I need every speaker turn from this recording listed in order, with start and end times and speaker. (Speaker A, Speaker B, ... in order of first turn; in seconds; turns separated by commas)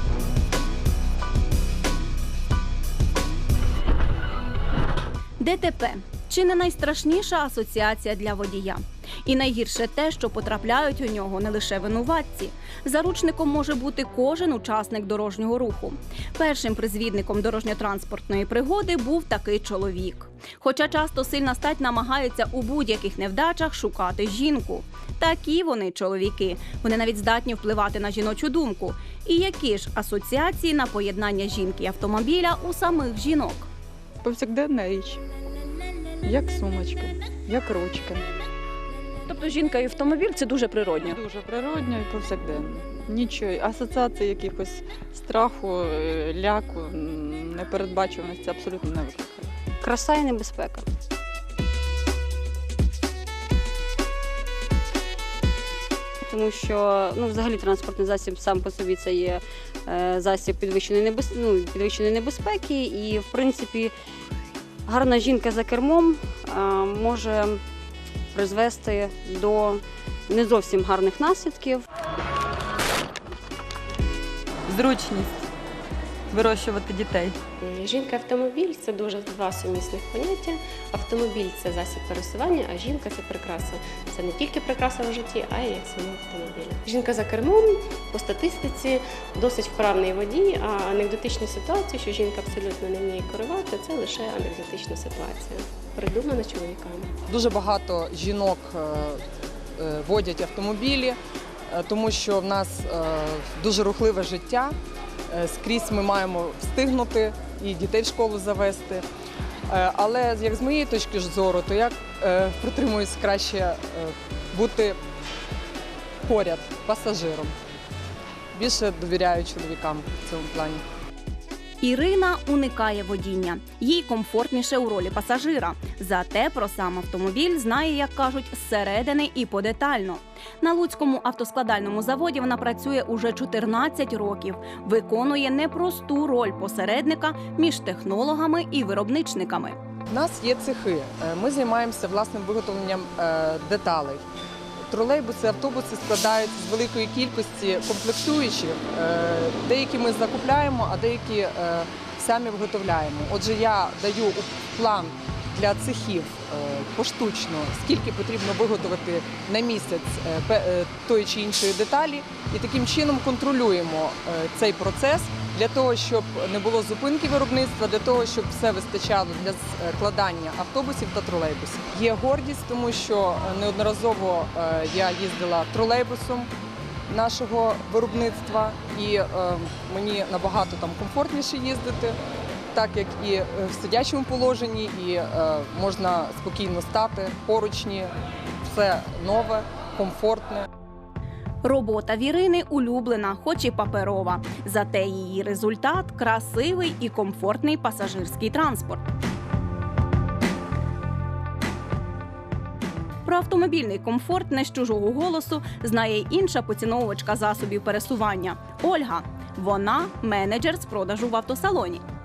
Speaker A: 5.4-33.7, Speaker B: 34.2-35.2, Speaker B: 36.2-38.3, Speaker A: 39.2-41.2, Speaker B: 41.0-49.5, Speaker C: 49.8-50.8, Speaker C: 56.3-63.9, Speaker C: 64.8-67.6, Speaker C: 68.3-71.8, Speaker B: 74.7-75.4, Speaker B: 76.3-77.4, Speaker D: 77.6-97.1, Speaker E: 97.3-99.2, Speaker E: 99.8-101.2, Speaker E: 101.7-104.7, Speaker E: 105.3-109.0, Speaker E: 109.7-115.0, Speaker E: 116.2-117.5, Speaker E: 118.5-120.8, Speaker A: 121.8-139.8, Speaker E: 140.1-144.2, Speaker E: 144.9-176.5, Speaker E: 177.1-182.2, Speaker E: 182.7-188.1, Speaker E: 188.6-190.7, Speaker A: 191.6-199.1, Speaker A: 203.2-212.0